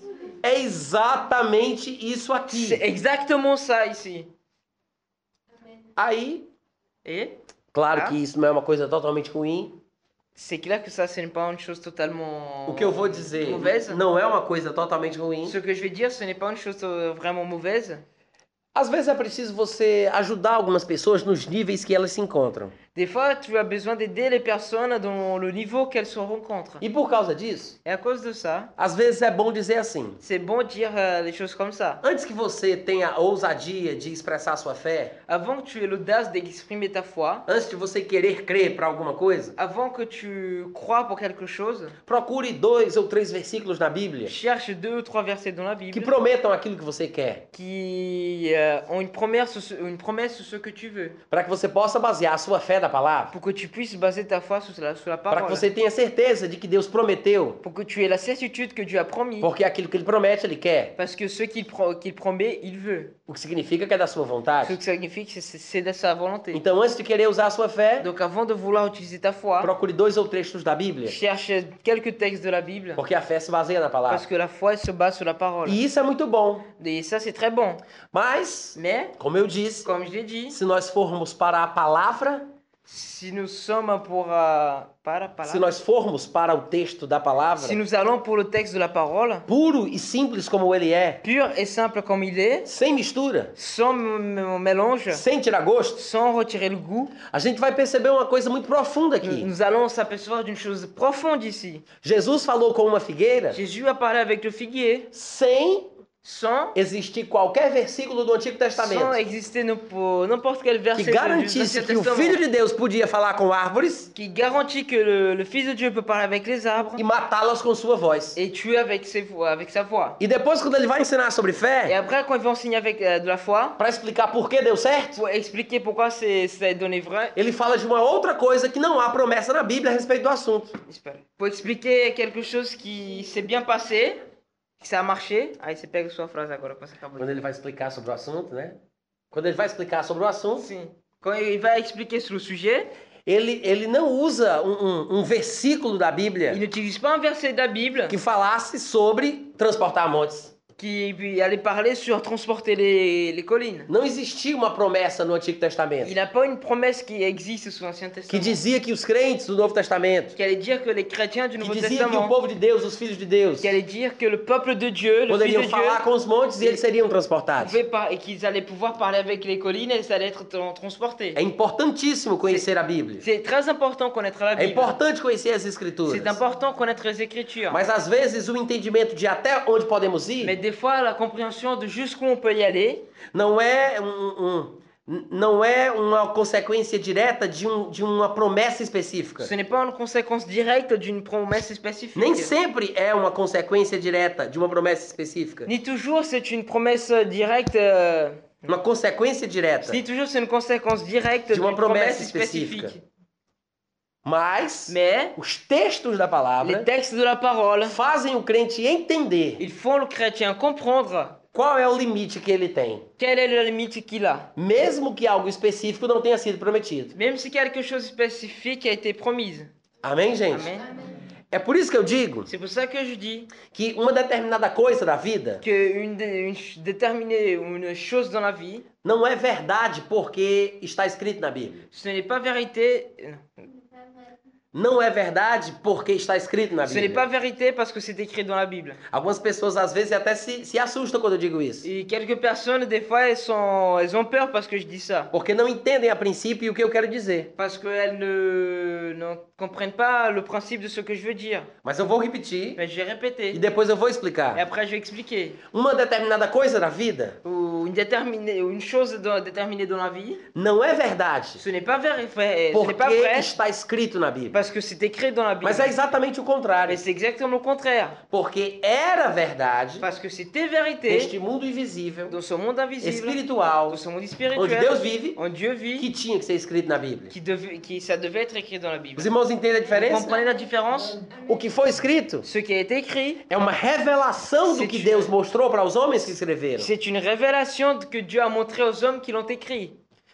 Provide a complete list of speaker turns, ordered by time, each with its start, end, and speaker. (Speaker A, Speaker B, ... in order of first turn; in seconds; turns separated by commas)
Speaker A: 0.4-2.8, Speaker B: 2.5-4.3, Speaker A: 6.0-6.5, Speaker B: 7.0-7.4, Speaker A: 7.7-9.8, Speaker B: 10.4-14.0, Speaker A: 12.7-15.6, Speaker B: 15.5-18.1, Speaker A: 18.8-22.8, Speaker B: 22.9-26.8, Speaker A: 26.8-27.8, Speaker B: 27.9-28.7, Speaker A: 28.8-30.2, Speaker B: 30.2-32.0, Speaker A: 32.0-35.1, Speaker B: 35.3-37.5, Speaker A: 37.5-39.6, Speaker B: 39.6-42.0, Speaker A: 42.1-44.4, Speaker B: 44.2-46.1, Speaker A: 45.9-47.5, Speaker B: 47.5-51.2, Speaker A: 51.3-53.3, Speaker B: 53.3-55.7, Speaker A: 55.3-57.6, Speaker B: 57.6-59.5, Speaker A: 59.4-61.0, Speaker B: 61.0-63.1, Speaker A: 63.3-64.8, Speaker B: 64.6-66.6, Speaker A: 66.5-68.1, Speaker B: 68.0-69.7, Speaker A: 69.6-71.2, Speaker B: 71.1-73.0, Speaker A: 73.0-74.3, Speaker B: 74.1-75.8, Speaker A: 75.7-76.7, Speaker B: 76.8-77.8, Speaker A: 78.1-79.9, Speaker B: 78.8-79.2, Speaker B: 79.8-80.6, Speaker A: 80.5-82.5, Speaker B: 82.8-85.7, Speaker A: 85.5-87.8, Speaker B: 87.6-89.5, Speaker A: 89.5-91.2, Speaker B: 91.2-92.7, Speaker A: 92.7-93.5, Speaker B: 93.6-95.2, Speaker A: 95.1-96.0, Speaker B: 96.0-97.2, Speaker A: 97.2-99.5, Speaker B: 99.2-101.8, Speaker A: 102.0-103.6, Speaker B: 103.5-105.1, Speaker A: 105.1-105.9, Speaker B: 106.2-106.8, Speaker A: 106.8-109.2, Speaker B: 108.8-112.4, Speaker A: 111.0-114.1, Speaker B: 114.1-117.0, Speaker A: 117.0-118.4, Speaker B: 118.4-120.2, Speaker A: 120.2-122.0, Speaker B: 121.9-123.8, Speaker A: 123.8-125.2, Speaker B: 125.2-127.4, Speaker A: 127.4-130.8, Speaker B: 130.9-134.2, Speaker B: 134.8-137.4, Speaker A: 137.2-138.8, Speaker A: 139.3-140.7, Speaker B: 140.6-142.9, Speaker A: 143.3-146.6, Speaker B: 146.5-148.2, Speaker A: 148.1-150.5, Speaker B: 150.8-153.9, Speaker A: 153.9-156.1, Speaker B: 156.0-158.6, Speaker A: 158.3-160.3, Speaker B: 160.4-162.3, Speaker A: 161.6-163.7, Speaker B: 163.6-166.0, Speaker A: 165.3-167.8, Speaker B: 167.6-171.4, Speaker A: 171.4-173.3, Speaker B: 173.2-175.0, Speaker A: 174.6-176.4, Speaker B: 176.1-177.8, Speaker A: 177.7-180.6, Speaker B: 180.4-183.1, Speaker A: 183.3-189.5, Speaker B: 189.4-192.5, Speaker A: 192.2-195.7, Speaker B: 195.7-198.7, Speaker A: 198.7-200.0, Speaker B: 199.8-203.0, Speaker A: 201.5-202.9, Speaker A: 204.2-206.9, Speaker B: 204.9-205.4, Speaker B: 206.6-208.0, Speaker A: 207.8-209.6, Speaker B: 209.6-211.4, Speaker A: 211.5-213.1, Speaker B: 213.2-214.5, Speaker A: 214.6-217.2, Speaker B: 217.2-219.7, Speaker A: 220.0-220.7, Speaker B: 220.5-220.9, Speaker A: 221.5-222.5, Speaker B: 222.5-223.5, Speaker A: 223.7-225.6, Speaker B: 225.6-228.9, Speaker A: 229.0-231.8, Speaker B: 231.9-233.7, Speaker A: 234.7-237.3, Speaker B: 236.8-239.0, Speaker A: 239.1-241.9, Speaker B: 241.8-245.3, Speaker A: 245.3-247.5, Speaker B: 247.6-251.7, Speaker A: 251.8-252.8, Speaker B: 252.8-253.6, Speaker A: 253.5-254.6, Speaker B: 254.5-255.6, Speaker A: 255.7-257.4, Speaker B: 257.4-260.4, Speaker A: 260.6-261.6, Speaker B: 261.6-263.5, Speaker A: 262.7-264.6, Speaker B: 264.5-265.9, Speaker A: 265.6-267.0, Speaker B: 266.9-268.2, Speaker A: 268.3-270.1, Speaker B: 270.0-271.3, Speaker A: 271.1-272.4, Speaker B: 272.3-276.1, Speaker A: 273.0-274.0, Speaker A: 274.5-275.4, Speaker A: 276.0-277.3, Speaker B: 277.3-279.3, Speaker A: 279.2-280.4, Speaker B: 279.9-281.3, Speaker A: 281.4-282.5, Speaker B: 282.4-283.5, Speaker A: 283.5-286.9, Speaker B: 284.6-285.3, Speaker B: 286.8-290.0